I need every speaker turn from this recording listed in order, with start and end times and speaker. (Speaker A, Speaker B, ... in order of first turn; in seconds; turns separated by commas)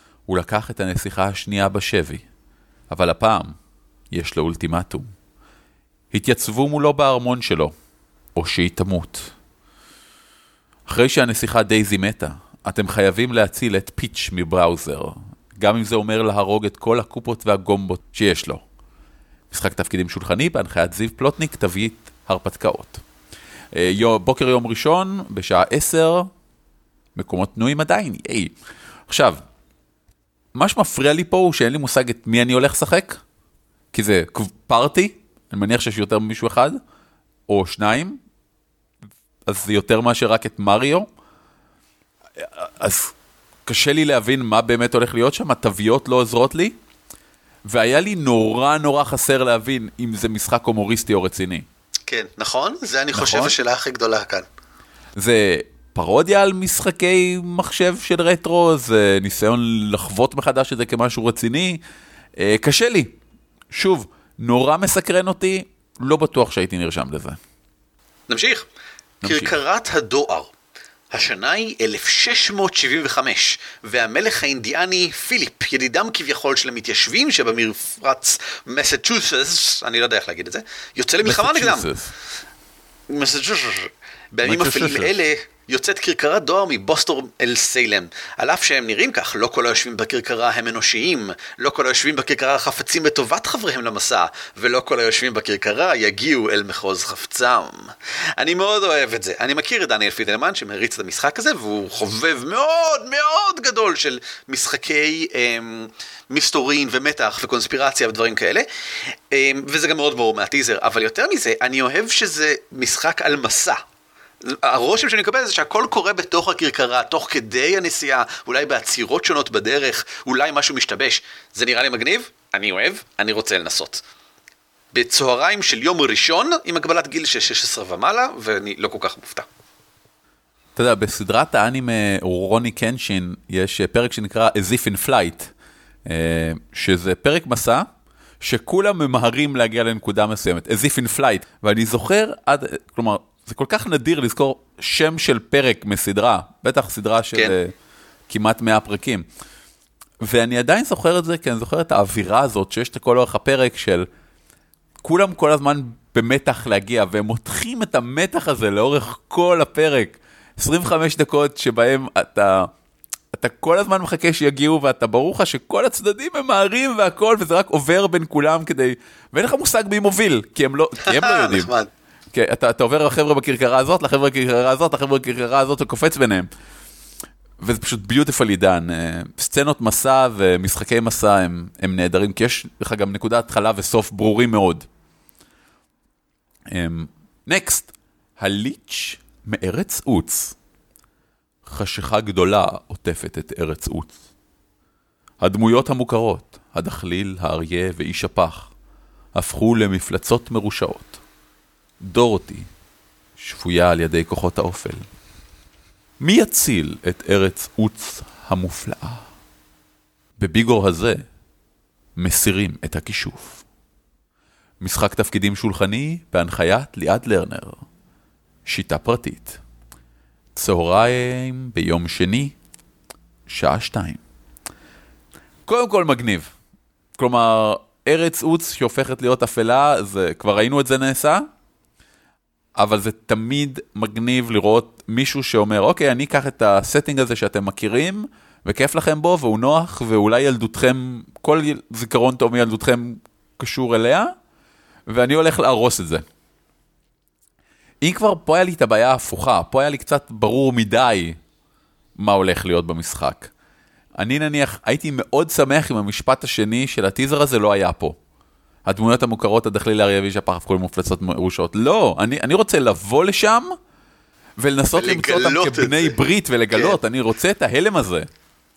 Speaker A: 0.3-2.2, Speaker A: 2.9-3.6, Speaker A: 4.1-5.1, Speaker A: 6.1-7.7, Speaker A: 8.3-9.3, Speaker A: 10.9-18.6, Speaker A: 19.5-23.0, Speaker A: 23.7-26.3, Speaker A: 27.1-28.5, Speaker A: 29.1-29.4, Speaker A: 30.6-33.2, Speaker A: 33.9-36.8, Speaker A: 37.5-38.2, Speaker A: 39.5-41.1, Speaker A: 42.4-43.1, Speaker A: 43.7-46.7, Speaker A: 47.7-51.7, Speaker B: 52.1-54.5, Speaker A: 53.1-53.5, Speaker A: 55.2-61.8, Speaker A: 62.4-63.2, Speaker A: 63.7-67.4, Speaker B: 68.3-68.7, Speaker A: 69.2-69.5, Speaker B: 69.2-70.5, Speaker B: 71.1-81.9, Speaker A: 81.2-82.1, Speaker B: 83.1-108.7, Speaker A: 84.4-85.1, Speaker B: 109.3-113.8, Speaker B: 114.4-124.0, Speaker B: 124.9-129.5, Speaker A: 130.8-135.5, Speaker A: 136.1-137.9, Speaker A: 138.4-147.7, Speaker A: 148.3-149.3, Speaker A: 150.2-154.1, Speaker A: 155.0-162.7, Speaker A: 163.3-171.7, Speaker B: 171.0-171.9, Speaker A: 172.3-176.5, Speaker A: 177.6-184.9, Speaker A: 186.7-190.6, Speaker A: 191.7-194.1, Speaker A: 195.4-198.7, Speaker A: 199.3-201.2, Speaker A: 202.0-202.7, Speaker A: 203.4-205.1, Speaker A: 206.2-209.3, Speaker A: 210.4-211.2, Speaker A: 212.2-213.6, Speaker A: 214.8-217.8, Speaker A: 218.7-219.6, Speaker A: 220.6-222.6, Speaker A: 223.5-224.2, Speaker A: 225.7-226.5, Speaker A: 227.2-231.4, Speaker A: 232.8-244.3, Speaker A: 245.1-246.2, Speaker A: 248.0-251.4, Speaker A: 252.2-253.5, Speaker A: 254.2-258.2, Speaker A: 258.9-263.8, Speaker A: 264.6-268.3, Speaker B: 265.0-266.2, Speaker B: 266.7-267.0